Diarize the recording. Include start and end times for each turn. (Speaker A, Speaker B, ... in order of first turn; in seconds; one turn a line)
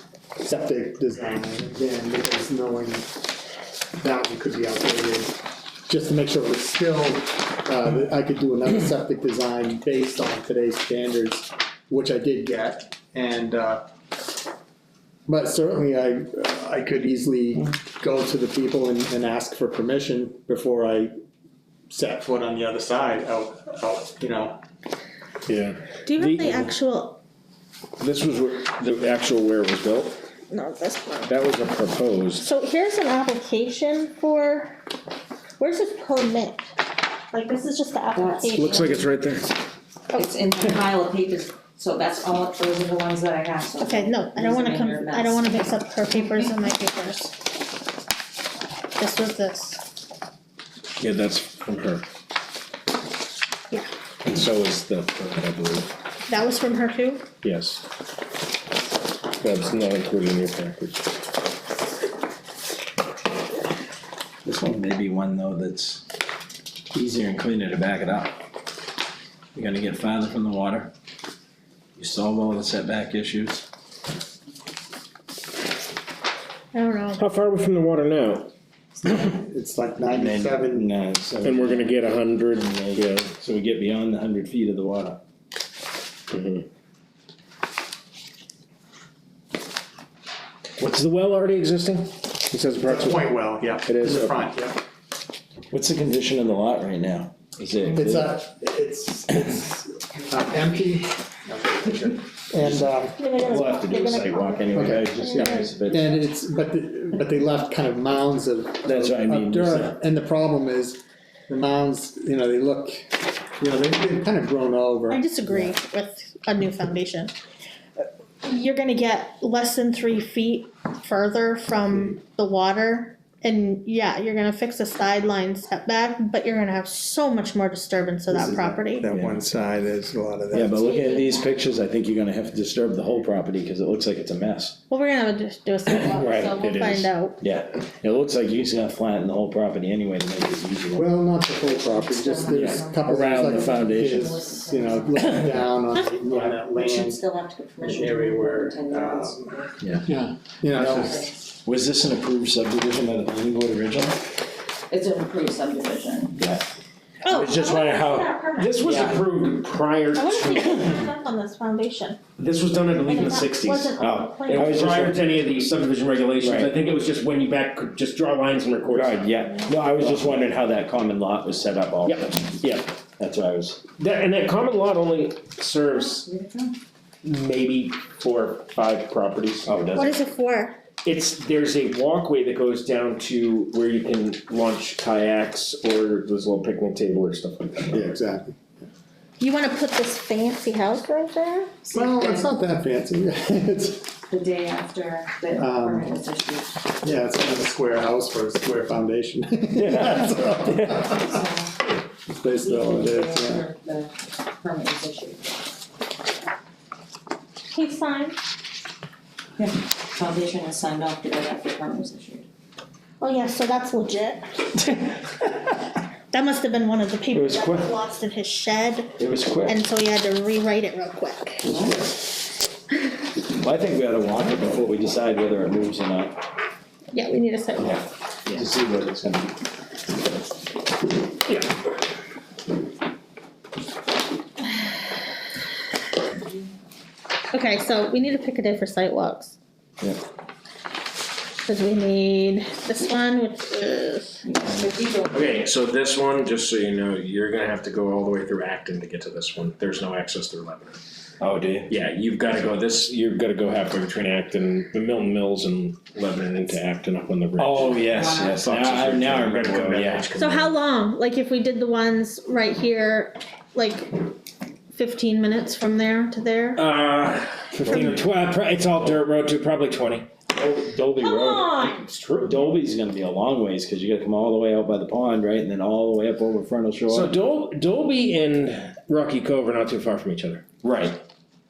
Speaker A: 0.4-3.1
Speaker A: 4.0-13.8
Speaker A: 15.3-21.1
Speaker A: 21.9-24.6
Speaker B: 25.4-26.7
Speaker C: 26.1-27.2
Speaker B: 28.0-30.2
Speaker C: 30.5-31.3
Speaker B: 31.3-32.5
Speaker C: 32.4-34.8
Speaker C: 35.6-36.7
Speaker C: 37.3-38.8
Speaker D: 38.1-39.0
Speaker B: 38.5-39.5
Speaker D: 40.1-45.7
Speaker C: 43.8-47.4
Speaker C: 49.0-49.8
Speaker B: 51.0-52.0
Speaker B: 54.2-55.9
Speaker C: 56.3-57.2
Speaker B: 57.4-57.8
Speaker B: 59.4-61.0
Speaker E: 64.4-66.0
Speaker E: 66.9-68.4
Speaker E: 69.5-70.9
Speaker E: 72.0-73.7
Speaker C: 76.7-77.2
Speaker B: 77.2-78.5
Speaker A: 79.0-80.9
Speaker E: 80.0-82.0
Speaker B: 81.4-83.3
Speaker E: 82.6-85.2
Speaker B: 86.3-86.7
Speaker B: 90.8-93.2
Speaker A: 92.8-94.8
Speaker B: 93.8-94.3
Speaker E: 95.7-98.3
Speaker A: 97.9-103.3
Speaker E: 102.6-106.2
Speaker C: 103.1-105.8
Speaker A: 104.7-115.2
Speaker E: 108.8-109.9
Speaker C: 115.1-117.3
Speaker C: 118.4-129.1
Speaker A: 128.3-130.9
Speaker E: 129.1-129.3
Speaker E: 130.5-134.8
Speaker C: 130.8-131.5
Speaker C: 134.9-137.4
Speaker E: 135.9-136.6
Speaker B: 136.6-137.1
Speaker E: 137.4-141.1
Speaker A: 140.9-147.2
Speaker D: 141.6-150.0
Speaker E: 142.5-144.2
Speaker E: 145.2-145.5
Speaker A: 147.8-149.5
Speaker E: 149.8-150.1
Speaker A: 150.1-151.2
Speaker D: 150.7-151.3
Speaker E: 150.7-154.2
Speaker D: 154.9-156.4
Speaker E: 156.3-156.7
Speaker C: 157.2-159.1
Speaker E: 157.3-159.2
Speaker B: 158.5-160.8
Speaker C: 160.1-162.2
Speaker B: 162.4-170.3
Speaker C: 162.9-165.0
Speaker E: 164.0-165.3
Speaker E: 166.4-166.8
Speaker E: 168.9-172.6
Speaker B: 172.0-172.9
Speaker E: 173.2-173.8
Speaker B: 174.0-176.3
Speaker D: 176.1-176.7
Speaker B: 177.2-179.7
Speaker E: 179.7-180.2
Speaker C: 179.9-180.8
Speaker B: 181.0-188.1
Speaker A: 187.9-188.6
Speaker C: 189.4-191.9
Speaker A: 191.9-194.1
Speaker D: 194.3-196.8
Speaker A: 195.5-196.1
Speaker A: 197.0-201.4
Speaker E: 199.7-201.1
Speaker D: 201.1-201.8
Speaker A: 202.3-203.7
Speaker D: 202.5-205.6
Speaker C: 207.7-208.4
Speaker D: 209.6-212.4
Speaker C: 213.2-214.9
Speaker C: 216.3-221.8
Speaker E: 217.3-217.9
Speaker E: 219.2-219.8
Speaker E: 221.7-222.0
Speaker E: 223.5-226.4
Speaker C: 227.1-228.0
Speaker E: 227.8-229.6
Speaker C: 237.5-239.6
Speaker C: 241.6-244.4
Speaker D: 244.4-245.5
Speaker B: 245.3-251.0
Speaker E: 251.4-251.9
Speaker B: 251.9-260.7
Speaker E: 257.6-260.3
Speaker D: 258.1-258.5
Speaker C: 260.4-264.3
Speaker C: 264.9-266.8
Speaker B: 266.8-270.3
Speaker E: 270.5-271.8
Speaker C: 271.2-272.1
Speaker B: 271.9-272.6
Speaker E: 272.4-277.3
Speaker B: 277.1-280.6
Speaker E: 280.8-281.2